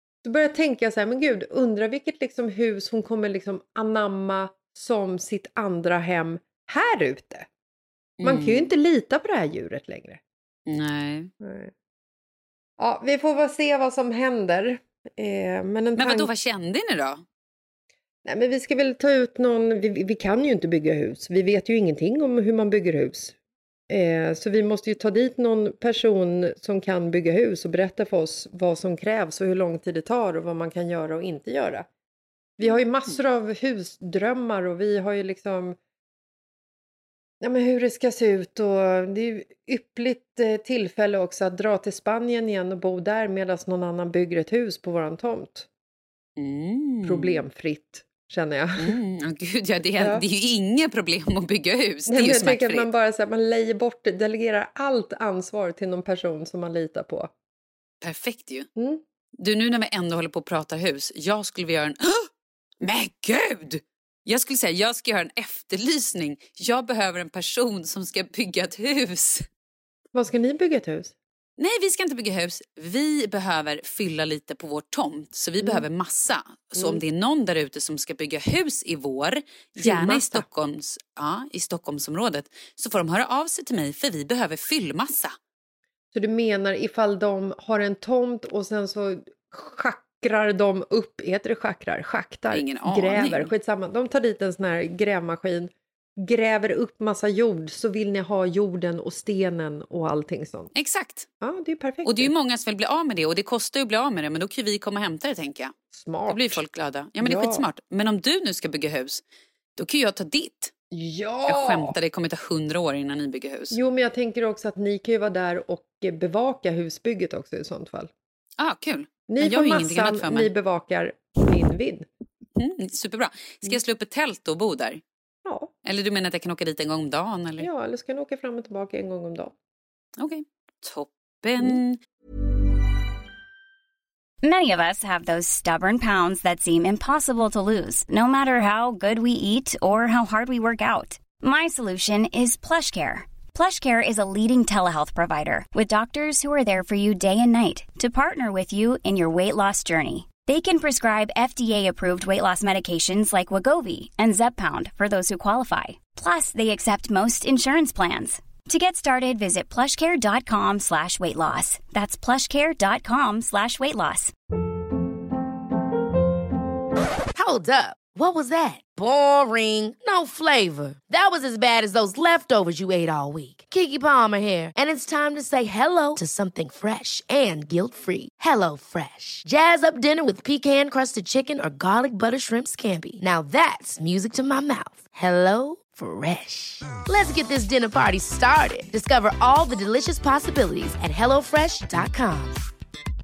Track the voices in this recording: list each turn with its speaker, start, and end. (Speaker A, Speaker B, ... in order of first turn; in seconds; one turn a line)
Speaker A: 0.2-7.5
Speaker B: 8.2-8.7
Speaker A: 8.2-10.2
Speaker B: 10.7-11.3
Speaker A: 11.4-11.7
Speaker A: 12.8-16.3
Speaker B: 15.9-17.2
Speaker A: 18.2-23.4
Speaker A: 23.9-31.9
Speaker A: 32.6-35.8
Speaker A: 37.4-45.7
Speaker B: 46.4-47.4
Speaker A: 47.0-49.0
Speaker B: 48.8-52.9
Speaker A: 50.0-50.2
Speaker A: 52.1-57.3
Speaker B: 58.0-58.7
Speaker A: 58.8-59.0
Speaker B: 59.4-62.3
Speaker B: 62.8-69.5
Speaker A: 70.1-71.1
Speaker B: 71.6-85.4
Speaker A: 75.6-75.8
Speaker A: 76.7-77.0
Speaker A: 79.8-80.5
Speaker A: 86.1-100.7
Speaker B: 92.5-93.5
Speaker B: 100.7-101.3
Speaker A: 101.4-102.3
Speaker B: 102.0-105.7
Speaker A: 105.9-106.6
Speaker B: 106.3-109.2
Speaker A: 107.2-107.7
Speaker B: 109.8-110.7
Speaker A: 110.9-112.0
Speaker B: 111.5-113.8
Speaker A: 113.7-118.1
Speaker B: 118.6-120.5
Speaker A: 119.3-122.1
Speaker B: 122.5-125.0
Speaker A: 125.4-125.7
Speaker B: 125.8-127.7
Speaker A: 127.6-129.5
Speaker B: 130.2-132.0
Speaker C: 134.4-164.3
Speaker D: 167.3-192.5